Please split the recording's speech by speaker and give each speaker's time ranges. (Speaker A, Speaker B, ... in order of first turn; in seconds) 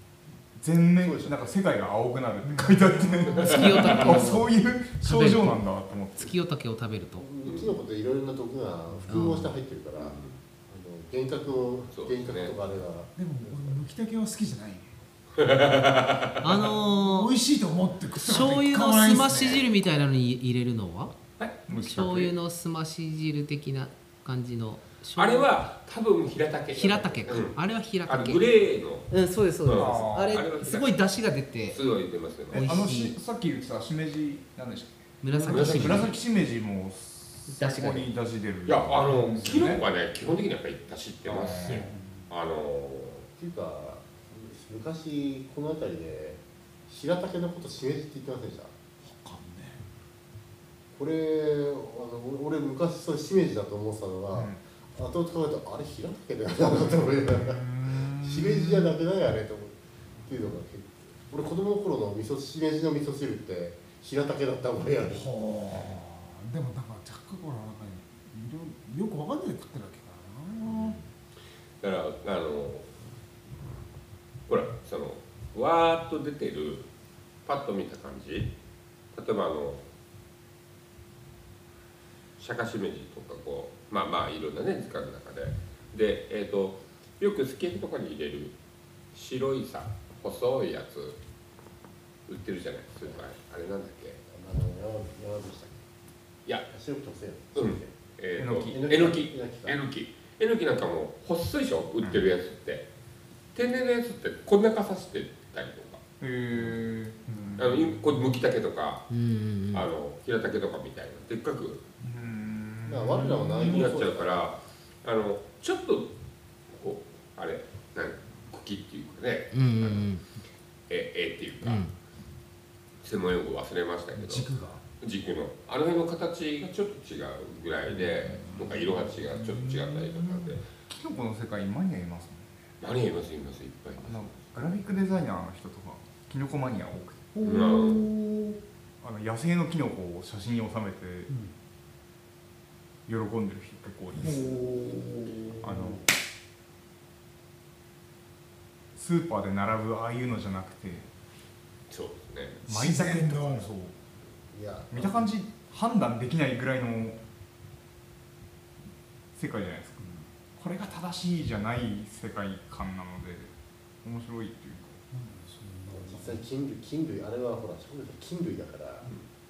Speaker A: 0.6-6.3, 21.7-22.3, 29.7-30.5, 32.5-39.8, 41.3-42.0, 54.3-54.6, 56.7-58.9, 98.4-98.8, 106.2-108.2, 112.0-113.9, 128.2-132.6, 134.0-137.3, 139.0-141.3, 143.1-144.5, 145.6-146.1, 148.9-151.1, 152.7-153.9, 154.9-157.2, 159.3-165.0
Speaker B: 1.0-1.6, 7.2-13.8, 43.4-48.7, 50.9-65.3, 94.3-95.8, 96.7-97.9, 98.6-99.8, 112.9-114.4, 154.5-155.3, 165.9-169.1
Speaker C: 2.4-3.6, 13.2-14.9, 16.6-19.8, 49.2-49.7, 65.1-71.0, 124.2-124.8, 137.3-138.6, 141.3-141.5, 144.2-146.0, 152.8-153.7, 160.0-160.3, 165.1-166.4
Speaker D: 3.4-4.5, 5.1-5.6, 6.2-7.3, 9.1-9.5, 16.4-17.3, 18.2-21.2, 21.7-25.6, 26.7-28.5, 29.1-31.8, 32.5-33.2, 35.2-36.1, 37.5-38.1, 109.1-109.9, 119.5-120.3, 121.6-122.0
Speaker E: 3.4-4.2, 7.5-7.8, 10.0-10.4, 11.9-12.5, 15.4-16.7, 25.2-29.1, 29.6-31.0, 31.7-32.7, 35.3-36.2, 38.7-43.3, 70.7-71.0, 71.8-72.9, 74.5-76.9, 77.5-78.5, 79.1-79.8, 82.4-88.5, 89.1-91.2, 92.3-94.2, 97.5-102.9, 103.5-106.0, 107.6-109.0, 109.7-111.8, 113.6-116.1, 116.7-120.1, 120.9-121.9, 123.0-130.7, 132.8-134.7, 137.4-138.1, 151.9-152.6